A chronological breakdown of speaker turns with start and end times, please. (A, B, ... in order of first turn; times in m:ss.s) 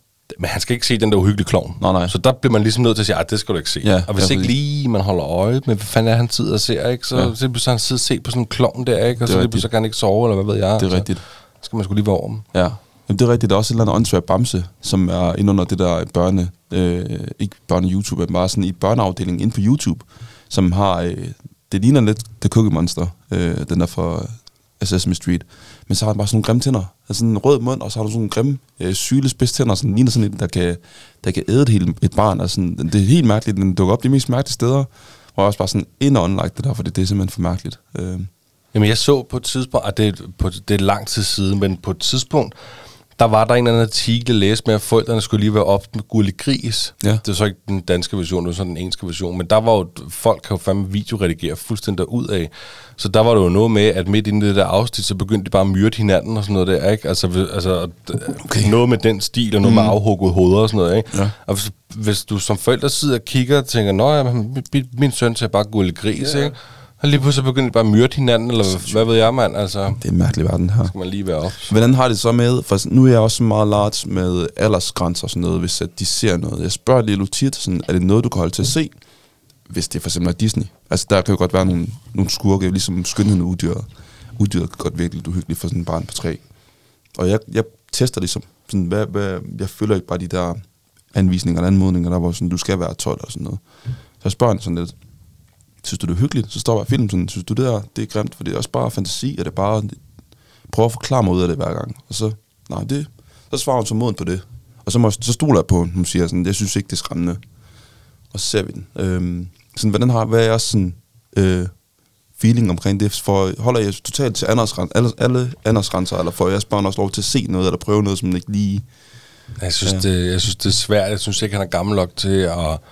0:00.3-0:12.5 A
0:01.8-0:02.1 B
0:03.8-0:04.5 B
0:09.2-0:09.7 B
0:10.8-0:11.2 B
0:12.5-0:38.3 B
0:38.7-0:42.5 A
0:43.1-1:10.0 A
0:58.4-0:58.7 B
0:59.6-0:59.9 B
1:06.2-1:06.5 B
1:08.6-1:09.0 B
1:10.0-1:10.9 B
1:10.8-1:11.7 A
1:11.6-1:19.0 B
1:19.6-1:26.4 B
1:27.1-1:30.6 B
1:31.1-1:33.6 B
1:34.2-1:35.0 B
1:35.8-1:40.0 B
1:40.7-1:47.4 B
1:48.3-1:51.7 B
1:52.3-1:58.8 B
1:59.6-2:02.8 A